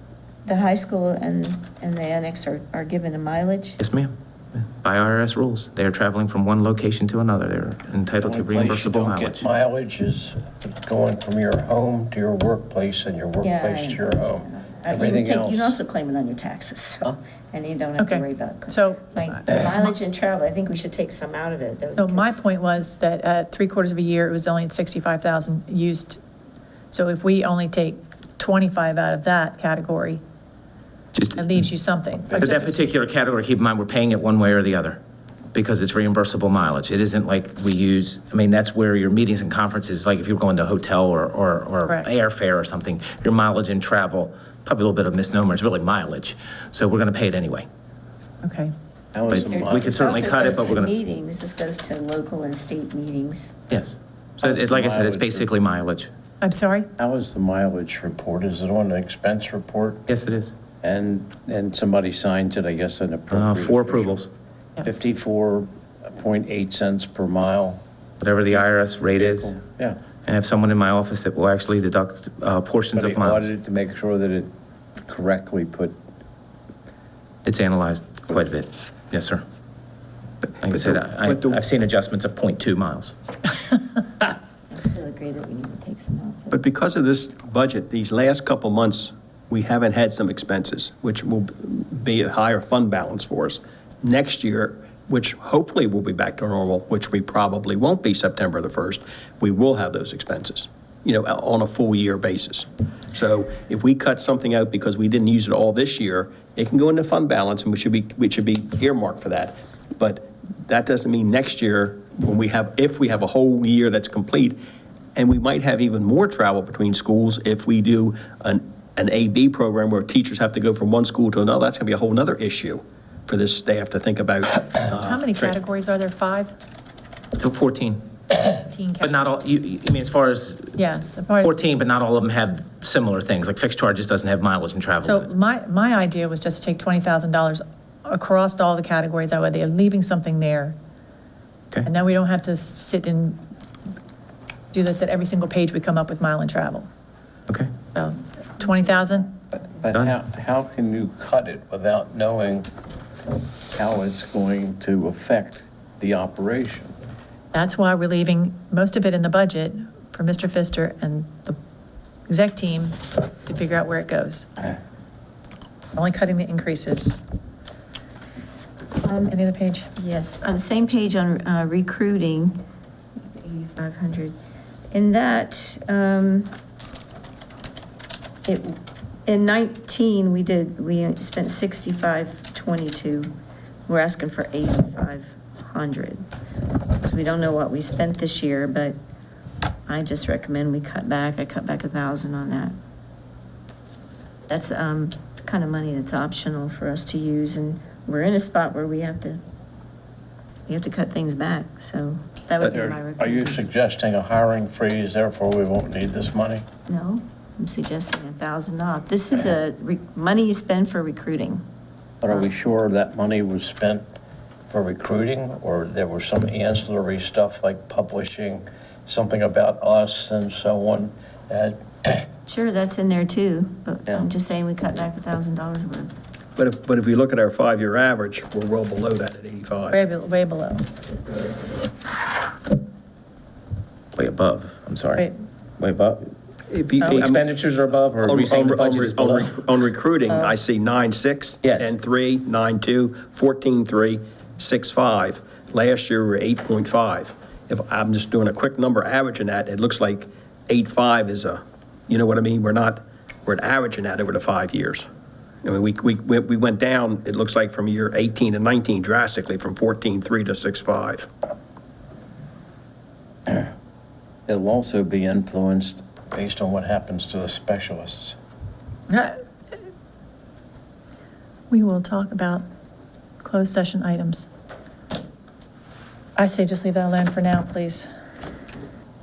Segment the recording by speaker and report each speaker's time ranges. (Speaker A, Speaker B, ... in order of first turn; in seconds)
Speaker A: 0.5-3.8, 13.4-22.4, 49.3-53.5, 84.7-86.6, 169.0-169.4, 169.9-172.6, 173.4-174.4, 174.9-176.5, 178.4-183.3, 183.9-186.2, 187.0-189.0, 189.9-192.7, 194.5-199.4, 200.7-203.6, 206.9-211.6, 222.5-226.1
Speaker B: 3.8-4.1, 4.8-9.4, 32.3-35.0, 35.5-47.7, 49.3-50.9, 53.7-56.1, 60.1-60.5, 63.3-64.3, 68.2-69.5, 70.2-73.5, 77.4-79.4, 80.6-83.1, 127.4-130.8, 131.4-135.3, 149.9-150.2, 234.2-235.3, 235.8-236.3, 237.0-239.6, 241.6-241.9
Speaker C: 8.2-15.7, 49.1-50.1, 54.4-55.5, 57.0-60.0, 60.8-64.2, 64.8-67.8, 69.2-70.0, 72.9-74.5, 75.0-76.0, 149.8-152.7, 153.7-156.9, 202.7-206.6, 212.2-214.0, 214.7-222.3, 264.5-268.4
Speaker D: 18.0-19.4, 21.9-26.2, 26.9-30.2, 31.3-32.7, 48.4-48.7, 56.4-56.9, 124.9-126.5, 128.6-129.2, 130.8-131.6, 135.0-140.8, 141.8-143.4, 144.7-146.9, 147.9-149.3, 157.5-161.6, 162.3-164.6, 165.9-167.2, 169.2-169.9, 229.9-230.9, 240.3-240.5, 269.1-269.4, 271.7-272.6, 273.4-274.5, 276.4-278.1
Speaker E: 80.7-81.6, 86.5-114.6, 115.2-125.5, 226.6-230.0, 236.7-237.4, 238.2-255.1, 255.6-261.3